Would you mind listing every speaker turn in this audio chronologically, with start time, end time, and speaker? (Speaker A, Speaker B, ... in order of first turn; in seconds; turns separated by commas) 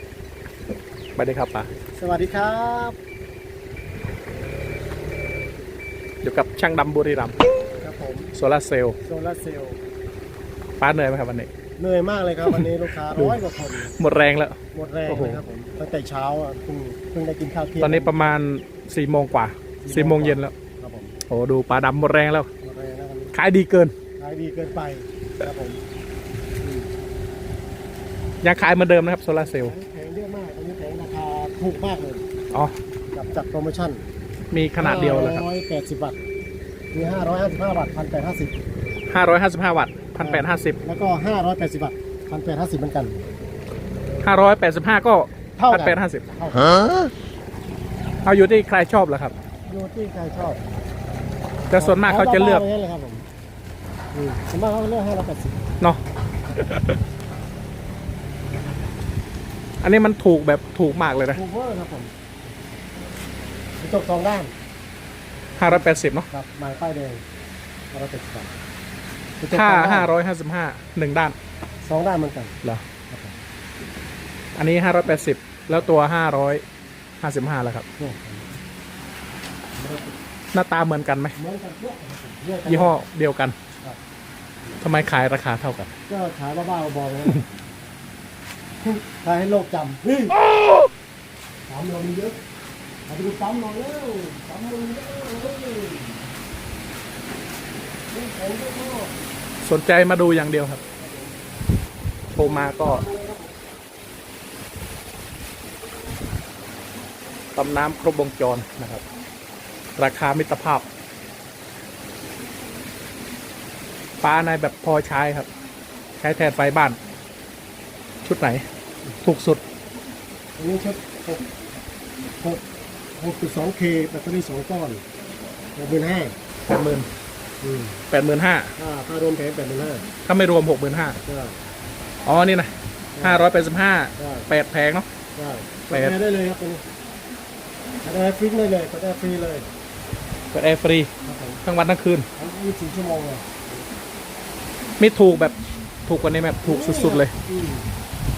Speaker A: 1.2-1.7, Speaker B: 2.0-3.0, Speaker A: 6.2-7.4, Speaker B: 7.8-8.3, Speaker A: 8.3-9.0, Speaker B: 9.0-9.8, Speaker A: 10.8-11.5, Speaker B: 11.8-14.0, Speaker A: 13.2-15.4, Speaker B: 14.7-18.3, Speaker A: 17.8-20.5, Speaker B: 19.8-21.2, Speaker A: 21.3-22.5, Speaker B: 22.6-23.4, Speaker A: 23.3-23.9, Speaker B: 24.2-25.8, Speaker B: 26.6-26.9, Speaker A: 28.4-29.8, Speaker B: 29.4-32.3, Speaker B: 33.1-34.0, Speaker A: 34.5-35.5, Speaker B: 34.8-36.2, Speaker B: 36.9-38.5, Speaker A: 39.1-40.8, Speaker B: 40.2-43.3, Speaker A: 44.2-46.2, Speaker B: 45.6-47.0, Speaker A: 48.2-49.3, Speaker B: 49.7-50.7, Speaker A: 51.7-52.6, Speaker B: 51.7-53.3, Speaker B: 54.1-55.8, Speaker A: 56.5-57.0, Speaker A: 59.8-61.4, Speaker B: 61.3-62.1, Speaker B: 63.8-64.5, Speaker A: 65.6-66.3, Speaker B: 66.3-67.2, Speaker B: 67.9-68.6, Speaker B: 69.4-70.1, Speaker A: 69.5-71.4, Speaker B: 71.8-72.6, Speaker B: 73.1-73.4, Speaker A: 74.6-76.6, Speaker A: 77.2-77.8, Speaker B: 78.0-78.6, Speaker B: 79.8-80.2, Speaker A: 80.5-81.3, Speaker B: 81.4-83.0, Speaker A: 82.7-83.6, Speaker A: 84.8-85.9, Speaker B: 86.1-87.5, Speaker B: 88.8-90.4, Speaker B: 91.7-92.4, Speaker B: 93.1-96.2, Speaker B: 98.1-99.2, Speaker A: 99.6-100.8, Speaker B: 101.0-101.4, Speaker A: 102.3-103.0, Speaker B: 102.4-103.5, Speaker A: 107.5-109.0, Speaker A: 110.0-110.9, Speaker A: 114.2-115.5, Speaker A: 116.2-117.0, Speaker A: 118.2-118.6, Speaker A: 119.2-119.6, Speaker B: 120.6-121.4, Speaker B: 123.2-125.0, Speaker B: 125.8-126.4, Speaker A: 126.7-127.1, Speaker B: 127.6-128.0, Speaker A: 128.1-128.7, Speaker B: 128.8-130.1, Speaker A: 130.3-131.2, Speaker B: 131.2-131.6, Speaker A: 132.2-135.1, Speaker B: 133.2-133.5, Speaker B: 134.2-134.5, Speaker B: 135.3-136.8, Speaker A: 135.9-136.2, Speaker B: 138.0-139.7, Speaker A: 140.5-141.1, Speaker B: 141.2-141.7, Speaker A: 141.7-142.3, Speaker B: 142.3-143.6, Speaker A: 145.0-147.3, Speaker B: 146.6-147.9